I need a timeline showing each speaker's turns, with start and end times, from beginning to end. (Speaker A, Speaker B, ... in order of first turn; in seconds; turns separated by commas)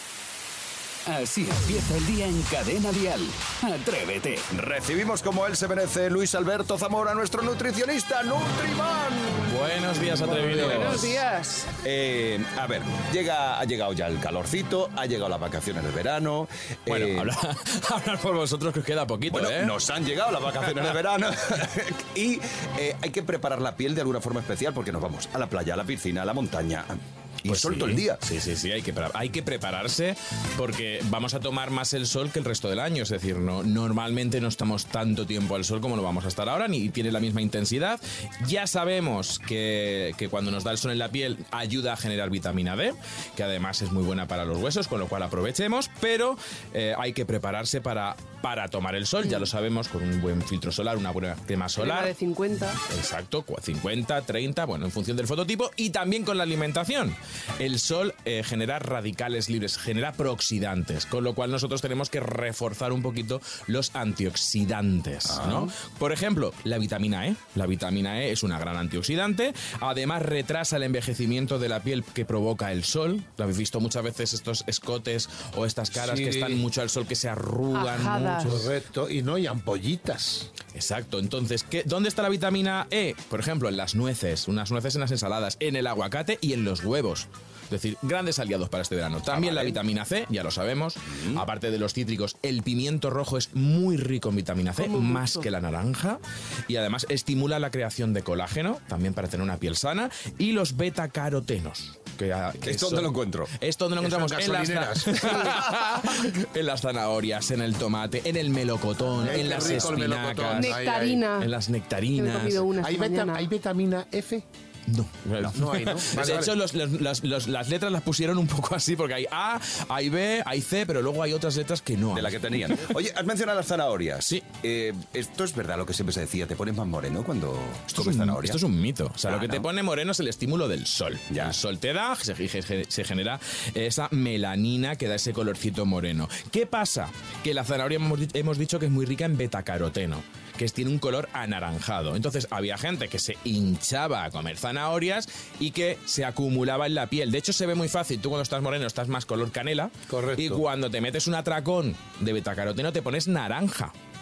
Speaker A: 1.1-4.5, Speaker B: 4.5-9.5, Speaker C: 9.4-11.2, Speaker D: 10.3-11.7, Speaker B: 10.7-11.0, Speaker B: 11.8-17.3, Speaker C: 16.9-19.7, Speaker B: 19.3-28.2, Speaker C: 27.5-52.1, Speaker D: 51.8-52.8, Speaker C: 52.9-78.6, Speaker B: 65.3-65.7, Speaker E: 75.9-76.6, Speaker D: 77.7-78.6, Speaker E: 78.4-80.5, Speaker C: 80.7-112.7, Speaker B: 89.3-89.8, Speaker B: 91.2-91.4, Speaker D: 94.8-95.5, Speaker B: 102.6-103.5, Speaker E: 104.0-105.5, Speaker E: 109.1-111.2, Speaker D: 110.6-111.5, Speaker D: 112.2-113.5, Speaker E: 112.8-114.5, Speaker C: 114.9-122.8, Speaker E: 115.5-116.5, Speaker B: 122.1-128.6, Speaker C: 127.9-153.9, Speaker B: 129.3-129.7, Speaker B: 131.3-131.6, Speaker E: 150.1-150.6